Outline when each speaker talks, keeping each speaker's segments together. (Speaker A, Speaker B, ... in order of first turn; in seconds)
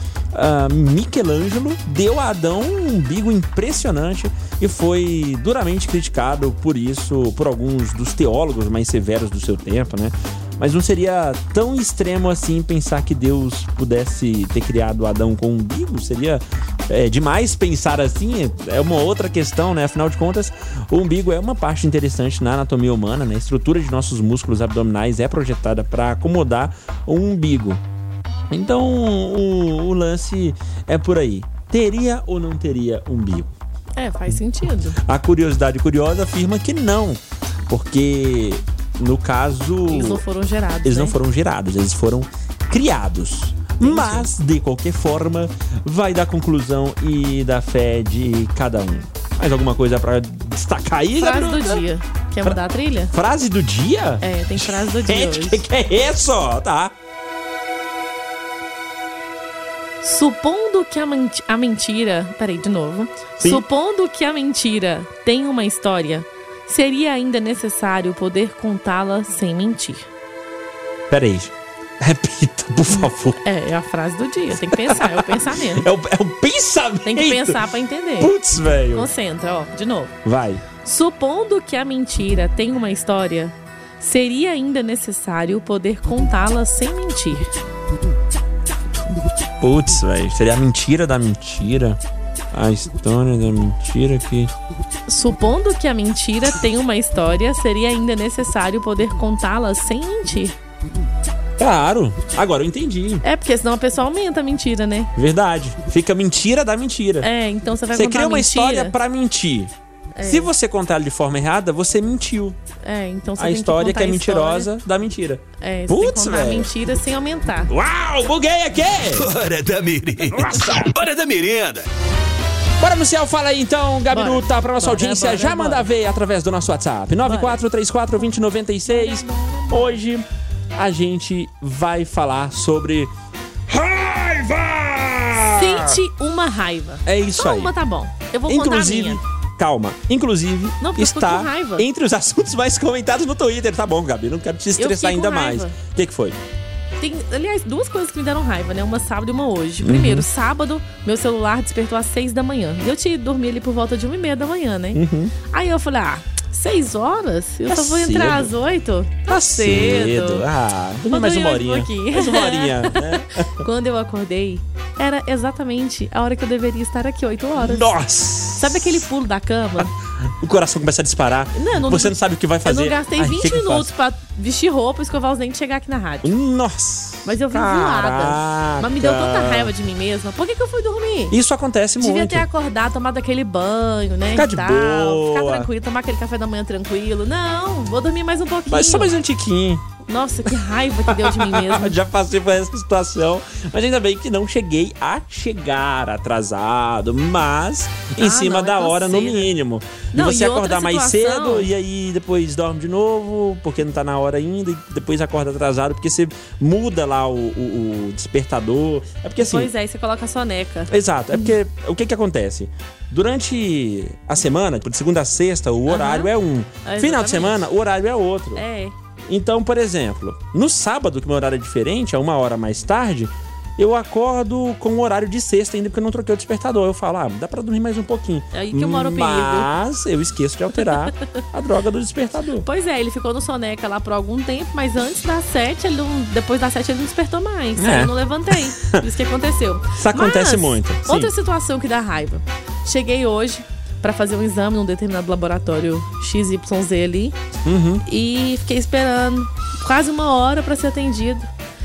Speaker A: 0.3-27.8, 28.5-33.5, 35.0-40.2, 40.8-51.9, 53.1-56.9, 71.1-73.4, 74.6-77.6, 78.2-79.1, 80.2-80.6, 89.6-92.0, 92.5-94.5, 101.6-103.2, 105.2-107.3, 107.9-112.6, 113.4-116.7, 117.7-119.3, 120.3-120.8, 122.8-130.2, 130.8-133.1, 133.7-136.0, 137.1-137.7, 138.5-146.4, 149.8-150.3, 154.9-155.3, 157.7-158.5, 159.3-163.5, 167.6-169.1, 169.8-173.9, 176.2-179.7, 181.3-182.5, 184.3-185.7, 188.7-189.8, 191.1-209.7, 210.9-218.7, 219.3-232.7, 237.8-239.0, 240.0-241.3, 247.7-248.0
Speaker B: 34.0-35.0, 39.9-41.1, 43.8-44.3, 51.2-53.1, 54.2-55.6, 60.0-70.1, 73.4-75.9, 77.1-78.3, 78.9-80.2, 80.8-87.5, 95.1-100.6, 103.2-105.1, 107.2-109.0, 110.2-110.5, 112.8-114.7, 115.6-117.7, 124.1-125.9, 127.2-127.6, 128.9-130.0, 135.5-139.2, 140.8-141.9, 144.8-145.8, 147.0-160.4, 161.1-167.9, 168.6-169.9, 171.6-176.3, 177.3-181.4, 182.0-189.1, 190.1-192.0, 198.2-199.5, 200.1-201.7, 209.4-211.5, 215.9-216.3, 216.8-217.7, 218.6-218.9, 228.5-229.7, 230.8-231.1, 232.6-247.4, 248.1-251.5
Speaker C: 119.2-121.9